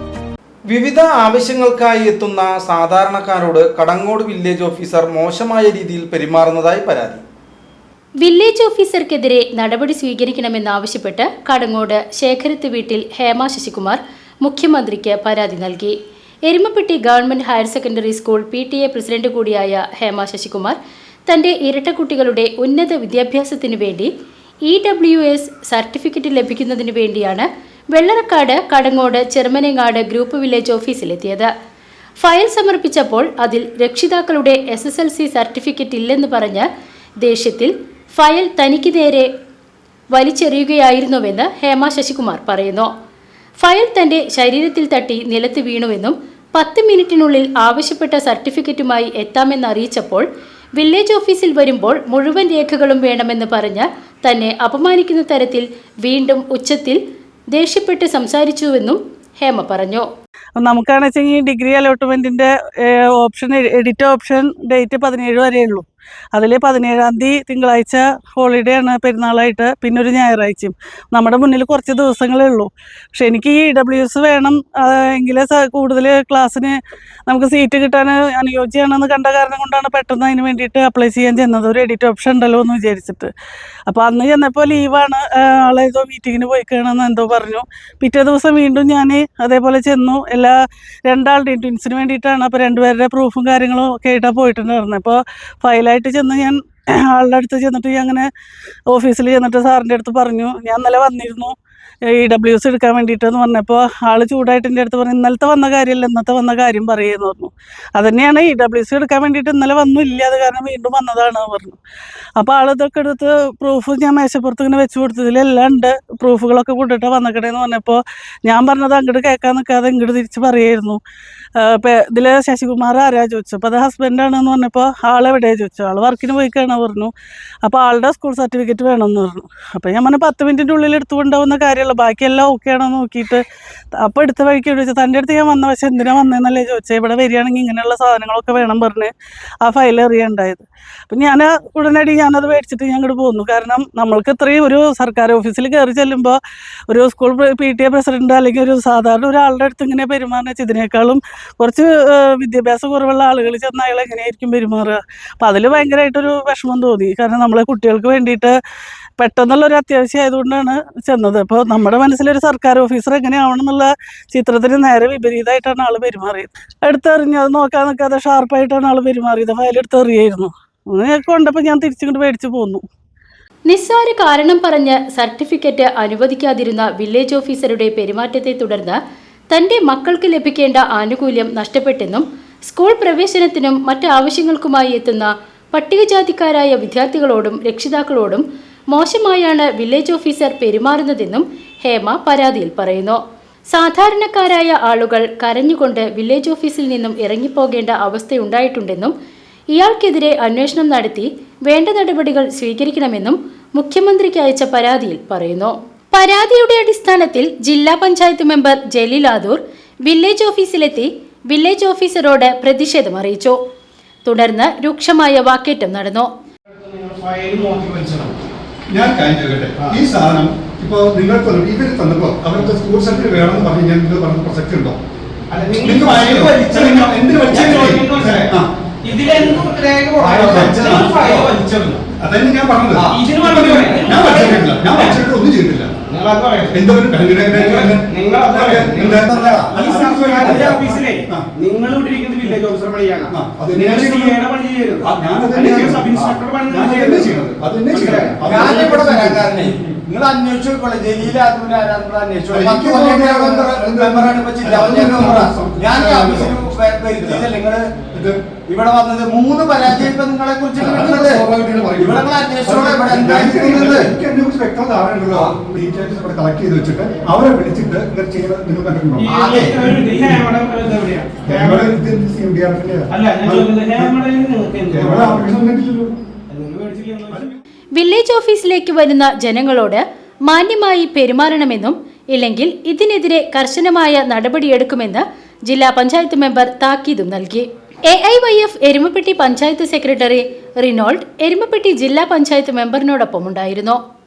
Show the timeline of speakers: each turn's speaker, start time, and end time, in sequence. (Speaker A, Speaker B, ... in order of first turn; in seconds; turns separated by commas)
Speaker A: 0.7-7.2, Speaker B: 8.2-15.9, Speaker B: 16.4-20.8, Speaker B: 21.3-24.1, Speaker B: 24.6-31.5, Speaker B: 32.2-36.6, Speaker B: 37.2-39.3, Speaker B: 40.1-42.9, Speaker B: 43.6-50.2, Speaker B: 50.8-57.0, Speaker B: 57.5-60.0, Speaker C: 60.6-76.7, Speaker C: 77.3-83.3, Speaker C: 83.9-90.5, Speaker C: 91.1-98.3, Speaker C: 98.9-101.5, Speaker C: 102.1-111.8, Speaker C: 112.4-121.0, Speaker C: 121.6-127.1, Speaker C: 127.6-133.4, Speaker C: 134.0-139.1, Speaker C: 139.6-146.4, Speaker C: 146.9-158.6, Speaker C: 159.2-172.8, Speaker B: 173.7-179.0, Speaker B: 179.5-193.2, Speaker B: 193.7-199.1, Speaker B: 199.7-213.6, Speaker B: 214.2-216.3, Speaker D: 216.7-218.4, Speaker E: 218.9-225.0, Speaker D: 225.5-228.5, Speaker E: 225.8-228.7, Speaker D: 229.0-232.0, Speaker E: 230.2-231.3, Speaker F: 230.3-231.5, Speaker E: 232.2-235.9, Speaker F: 232.9-233.2, Speaker D: 233.1-235.2, Speaker D: 236.1-236.8, Speaker E: 236.7-241.4, Speaker D: 237.5-247.3, Speaker F: 239.2-241.0, Speaker E: 243.3-244.4, Speaker E: 245.0-246.1, Speaker F: 246.1-246.4, Speaker E: 246.7-249.5, Speaker D: 247.9-248.4, Speaker F: 248.4-257.8, Speaker E: 252.5-256.6, Speaker E: 257.2-257.5, Speaker E: 258.1-258.4, Speaker F: 258.6-261.4, Speaker E: 259.8-260.1, Speaker E: 260.7-270.4, Speaker F: 261.9-264.1, Speaker D: 269.2-271.9, Speaker F: 269.3-269.9, Speaker E: 271.4-274.1, Speaker D: 273.1-275.5, Speaker E: 274.9-276.2, Speaker D: 276.5-277.5, Speaker B: 277.9-294.0